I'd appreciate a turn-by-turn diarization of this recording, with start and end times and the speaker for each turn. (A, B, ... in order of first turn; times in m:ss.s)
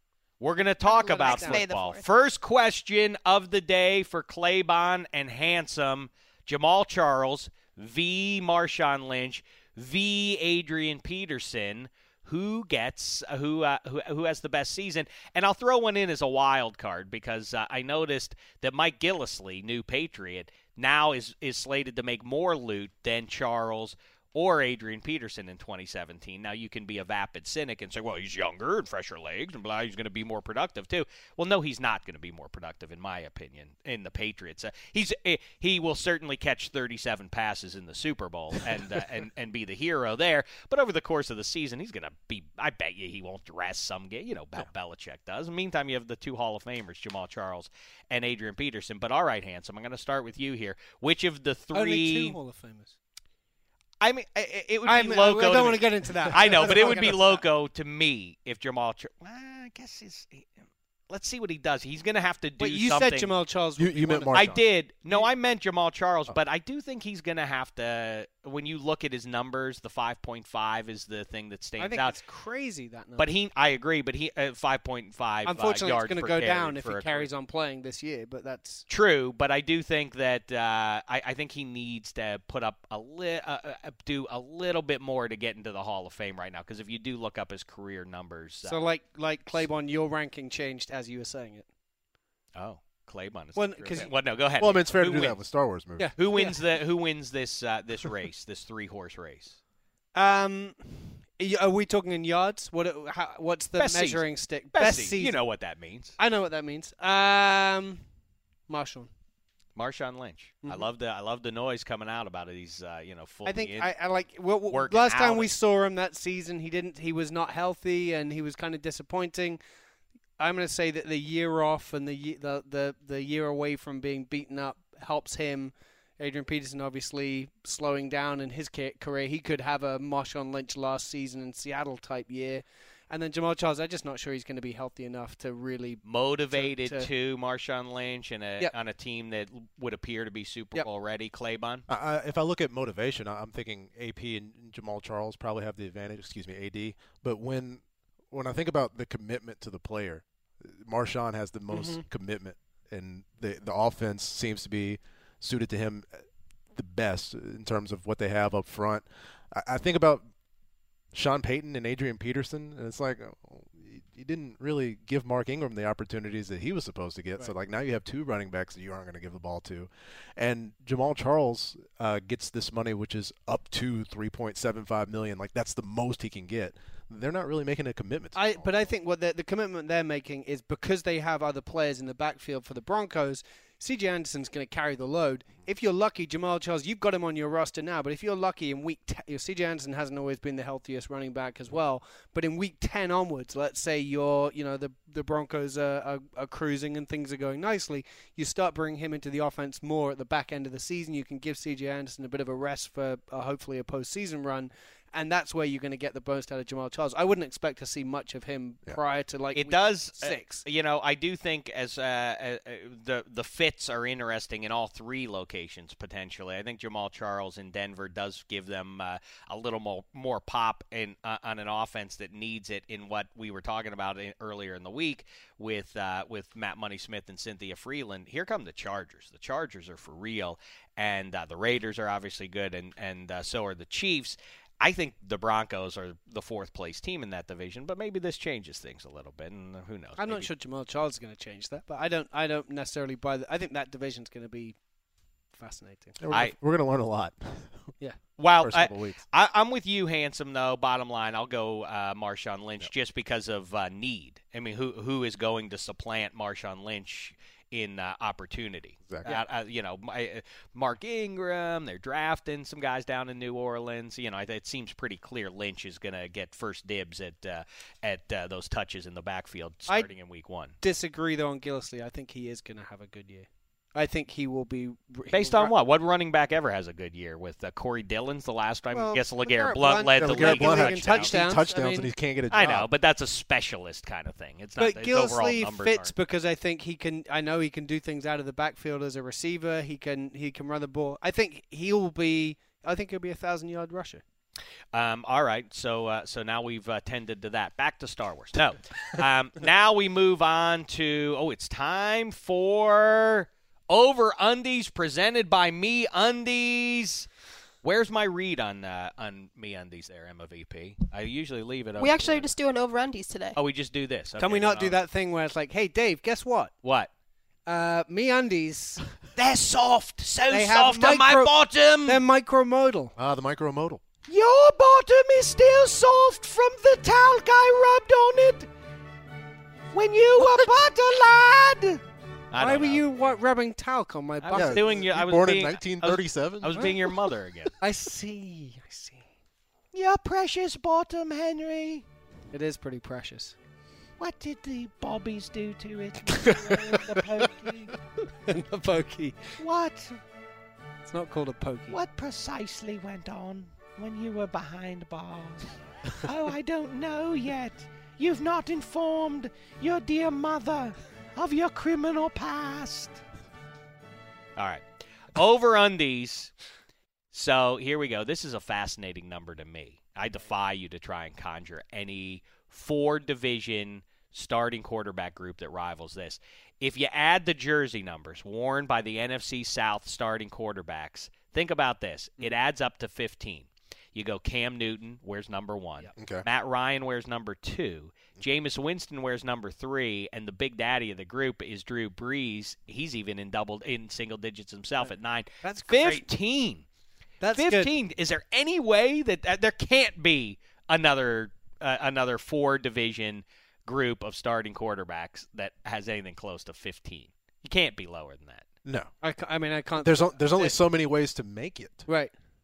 0:00.4-0:52.4 A
0:00.8-0:02.0 B
0:01.0-0:01.6 C
0:51.7-0:53.0 C
0:54.0-1:00.5 A
0:54.8-0:57.4 C
1:01.1-1:03.3 A
1:02.6-1:05.3 C
1:03.8-1:04.6 D
1:04.3-1:12.2 A
1:11.8-1:13.3 C
1:13.2-1:17.3 A
1:15.4-1:18.8 C
1:18.9-1:28.8 A
1:28.6-1:31.6 C
1:32.5-1:35.4 A
1:33.6-1:34.1 C
1:34.6-1:36.1 D
1:36.0-1:36.6 C
1:36.2-1:39.6 A
1:40.1-1:45.4 C
1:43.8-1:46.1 A
1:46.2-1:48.0 C
1:48.7-1:49.1 C
1:49.8-1:53.9 A
1:53.4-1:59.6 C
1:54.7-1:55.5 A
2:00.4-2:17.1 C
2:16.0-2:21.8 A
2:21.9-2:36.2 D
2:31.7-2:32.0 C
2:36.7-2:40.3 D
2:41.1-2:58.9 D
2:58.3-3:30.6 C
3:29.5-4:00.5 A
4:00.2-4:04.8 C
4:05.5-4:06.1 C
4:06.2-4:07.9 D
4:08.4-4:30.8 A
4:08.5-4:09.2 D
4:30.8-4:35.7 C
4:35.3-4:41.7 A
4:38.9-4:42.1 C
4:40.2-4:42.9 D
4:42.5-4:46.1 A
4:44.8-4:54.2 C
4:54.9-5:07.3 A
5:07.8-5:12.5 A
5:12.0-5:13.6 B
5:13.6-5:15.0 A
5:14.4-5:16.7 C
5:16.8-5:17.1 A
5:17.6-5:19.1 C
5:19.4-5:22.2 A
5:20.5-5:21.5 C
5:22.0-5:23.1 C
5:23.2-5:24.0 D
5:24.3-5:28.7 A
5:29.9-5:32.0 A
5:30.4-5:30.7 C
5:32.5-5:33.4 A
5:32.6-5:35.0 C
5:34.4-5:37.7 A
5:34.5-5:37.1 D
5:37.8-5:39.2 C
5:39.9-5:42.0 A
5:42.5-5:43.5 C
5:44.2-5:47.9 A
5:46.2-5:47.2 C
5:48.4-5:49.4 C
5:49.6-5:50.2 A
5:51.0-5:52.0 C
5:51.9-6:03.2 A
6:04.6-6:04.8 A
6:05.3-6:06.5 A
6:07.3-6:36.8 A
6:26.2-6:26.4 D
6:35.0-6:36.2 C
6:37.4-6:37.9 C
6:37.5-6:48.6 A
6:48.8-6:49.1 D
6:49.2-6:50.8 C
6:50.0-6:52.1 D
6:52.1-6:52.3 C